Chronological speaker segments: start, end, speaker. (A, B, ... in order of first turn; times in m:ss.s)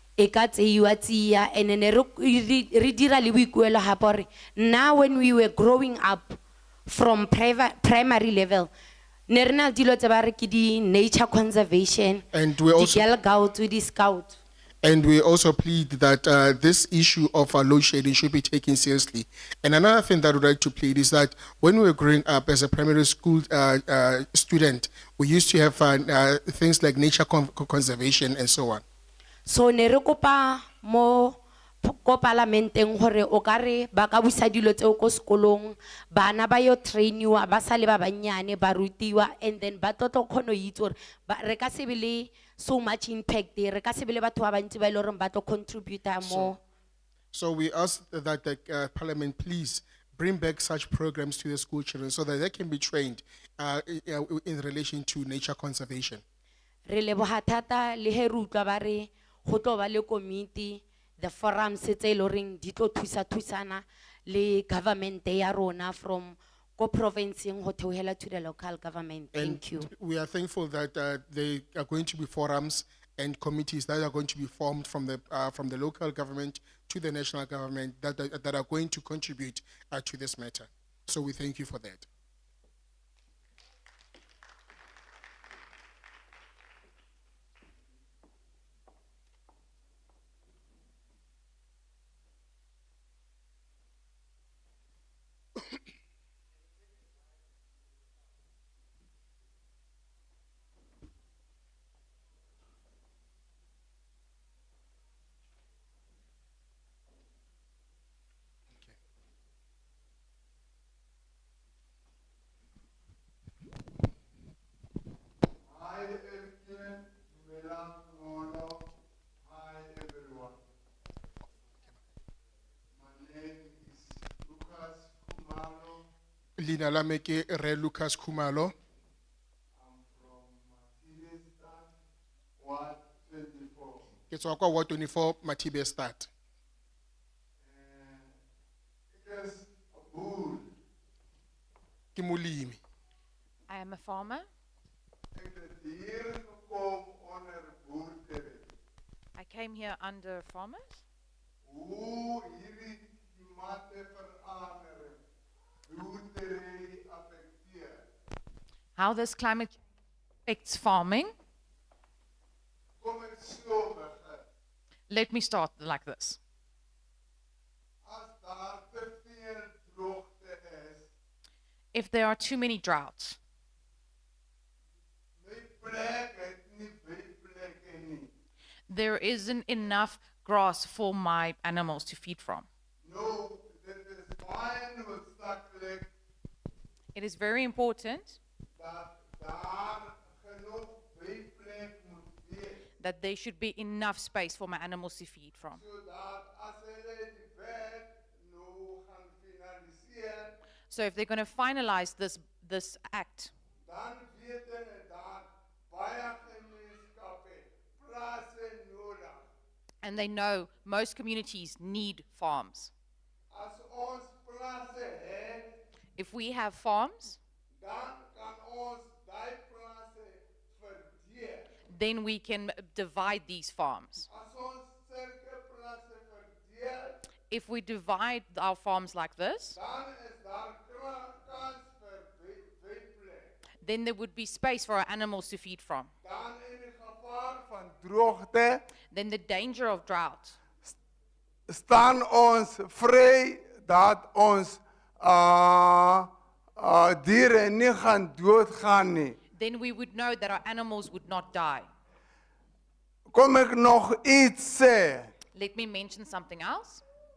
0:00.2-0:08.7 A
0:09.3-0:14.4 A
0:12.3-0:13.1 B
0:14.8-0:28.8 B
0:29.4-0:46.6 A
0:46.2-0:46.5 B
0:47.3-0:56.2 B
0:56.9-1:09.9 A
1:09.4-1:22.1 B
1:48.7-1:49.0 B
1:55.6-1:58.9 C
1:59.4-2:00.6 C
2:02.9-2:06.1 C
2:06.6-2:08.7 B
2:09.7-2:11.9 C
2:12.6-2:14.0 C
2:14.3-2:16.3 B
2:17.6-2:18.4 C
2:19.1-2:20.7 C
2:22.2-2:22.8 B
2:23.7-2:24.5 D
2:25.3-2:28.7 C
2:29.4-2:31.0 D
2:31.6-2:35.2 C
2:35.9-2:38.0 C
2:39.0-2:39.8 D
2:40.5-2:41.3 D
2:43.0-2:44.4 C
2:45.1-2:46.4 D
2:48.0-2:51.1 C
2:51.9-2:53.4 D
2:55.4-2:58.3 C
2:58.9-3:02.7 D
3:03.0-3:06.1 C
3:07.1-3:08.4 D
3:08.8-3:12.9 C
3:13.0-3:15.8 D
3:15.7-3:20.6 C
3:20.9-3:23.5 D
3:23.8-3:29.5 C
3:30.0-3:32.9 D
3:33.5-3:35.7 C
3:36.2-3:37.4 D
3:37.8-3:41.7 C
3:41.9-3:44.3 D
3:44.3-3:47.3 C
3:47.5-3:49.8 D
3:49.8-3:53.5 C
3:53.8-3:56.1 D
3:56.2-3:58.8 C
3:59.1-4:00.6 D
4:01.7-4:09.4 C
4:09.6-4:11.9 D
4:13.3-4:15.3 C
4:15.5-4:17.0 D